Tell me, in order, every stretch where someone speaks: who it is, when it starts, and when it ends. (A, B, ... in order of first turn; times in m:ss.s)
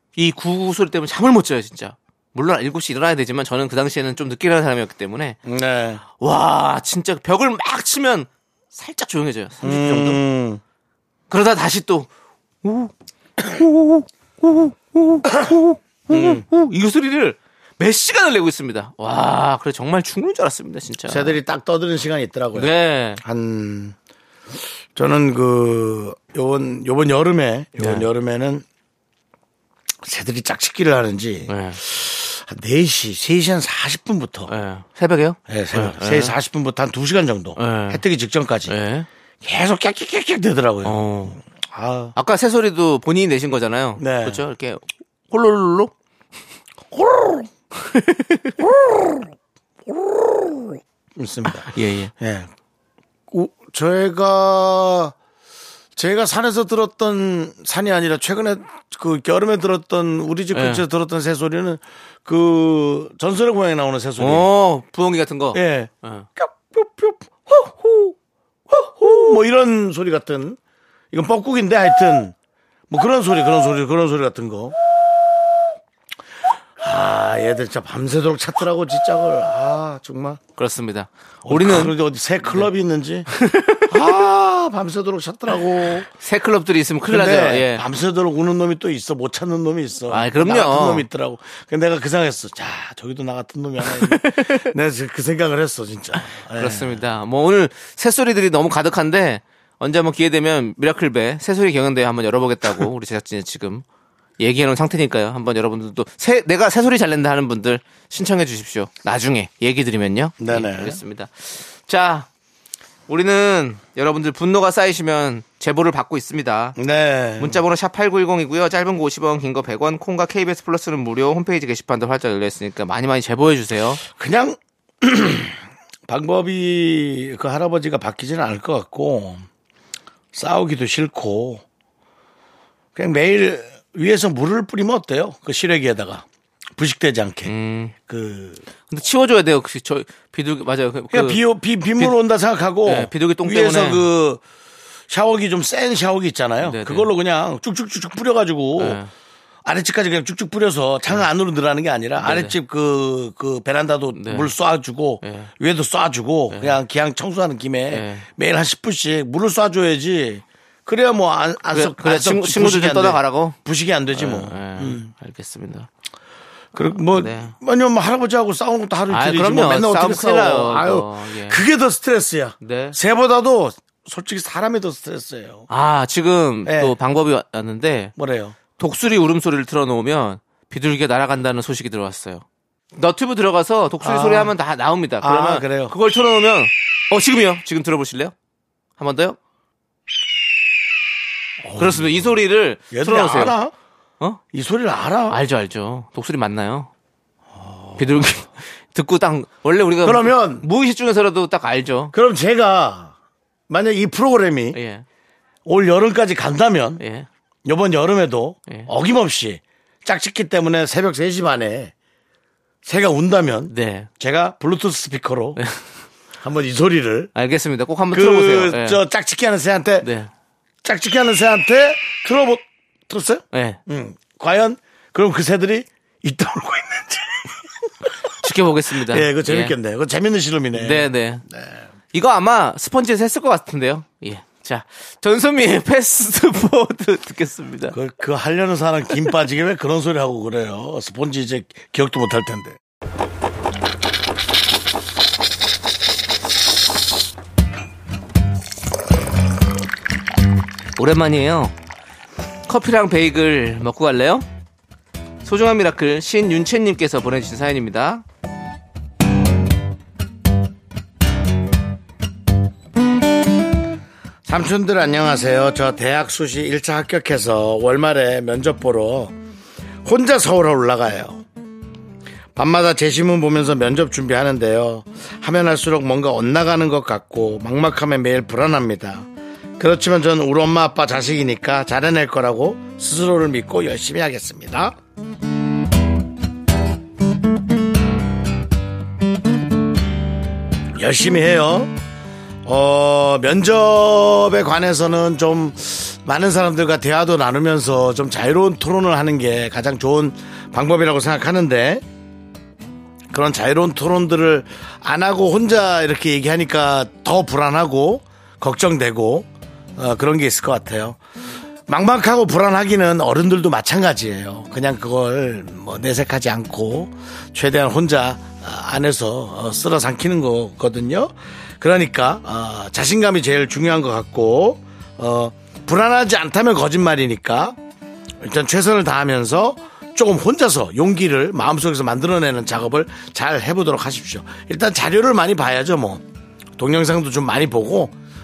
0:00.2-0:05.4 A
0:05.4-0:06.0 B
0:06.2-0:10.2 A
0:09.6-0:10.6 B
0:11.3-0:12.1 A
0:12.6-0:21.4 A
0:16.1-0:16.4 B
0:21.1-0:24.0 B
0:22.5-0:23.2 A
0:24.9-0:28.6 B
0:27.8-0:28.1 A
0:30.0-0:34.5 B
0:31.5-0:31.8 A
0:34.5-0:36.3 A
0:35.5-0:38.7 B
0:37.6-0:38.0 A
0:38.7-0:39.1 A
0:39.4-0:41.0 B
0:40.8-0:41.4 A
0:41.6-0:42.1 B
0:42.1-0:45.9 A
0:44.0-0:44.4 B
0:46.9-0:47.5 B
0:47.8-0:48.5 A
0:48.6-0:49.2 B
0:49.9-0:52.5 B
0:51.6-0:52.1 A
0:53.3-0:55.1 B
0:56.0-1:04.5 B
1:00.5-1:00.8 A
1:04.2-1:06.3 A
1:05.5-1:08.1 B
1:08.7-1:10.6 B
1:11.1-1:12.3 B
1:12.9-1:14.8 B
1:16.8-1:20.4 B
1:20.6-1:22.7 A
1:21.4-1:23.3 B
1:23.3-1:23.9 A
1:23.9-1:26.1 B
1:26.2-1:27.8 A
1:27.1-1:37.0 B
1:30.1-1:31.1 A
1:33.8-1:34.7 A
1:36.5-1:43.8 A
1:44.4-1:52.3 A
1:50.4-1:51.0 B
1:53.1-1:56.8 A
1:56.8-1:57.6 B
1:57.4-2:04.0 A
2:04.0-2:09.4 B
2:10.3-2:11.6 B
2:12.9-2:16.2 B
2:16.8-2:18.6 B
2:17.4-2:17.9 A
2:18.9-2:21.4 A
2:21.1-2:24.4 B
2:22.8-2:24.1 A
2:25.1-2:29.0 B
2:26.6-2:27.1 A
2:28.8-2:29.1 A
2:29.6-2:45.1 B
2:32.2-2:32.5 A
2:34.1-2:34.5 A
2:35.2-2:35.5 A
2:36.5-2:36.8 A
2:37.9-2:38.2 A
2:41.7-2:43.6 A
2:44.1-2:45.9 A
2:46.7-2:55.6 B
2:46.9-2:47.5 A
2:49.1-2:51.6 A
2:52.6-2:53.0 A
2:55.7-2:58.1 A
2:56.6-2:56.9 B
2:58.2-2:58.6 B
2:58.8-3:02.4 A
3:02.9-3:08.3 A
3:04.0-3:04.5 B
3:05.2-3:05.9 B
3:09.0-3:09.4 A
3:11.6-3:12.3 B
3:11.8-3:13.6 A
3:12.9-3:13.7 B
3:14.5-3:15.4 B
3:15.3-3:16.9 A
3:17.5-3:18.0 B
3:18.0-3:22.1 A
3:20.0-3:20.6 B
3:22.1-3:23.1 B
3:23.7-3:24.8 B
3:24.7-3:25.0 A
3:25.6-3:27.0 B
3:27.0-3:27.3 A
3:27.6-3:31.9 B
3:32.8-3:35.6 B
3:33.7-3:34.1 A
3:35.6-3:35.8 A
3:36.4-3:37.3 B
3:37.3-3:39.0 A
3:38.1-3:40.1 B
3:40.0-3:40.3 A
3:40.8-3:47.6 B
3:43.5-3:43.8 A
3:48.4-3:49.7 A
3:49.0-3:51.8 B
3:50.7-3:51.4 A
3:52.1-3:58.0 A
3:57.9-4:02.8 B
4:11.0-4:11.7 A
4:12.7-4:14.4 A
4:15.4-4:18.2 A
4:24.4-4:29.4 B
4:30.0-4:31.4 B
4:32.5-4:39.3 B
4:39.8-4:45.0 B
4:51.0-4:52.0 B
4:52.6-5:02.0 B
5:03.3-5:11.2 B
5:11.9-5:27.8 B
5:28.4-5:36.2 B
5:36.8-5:38.1 B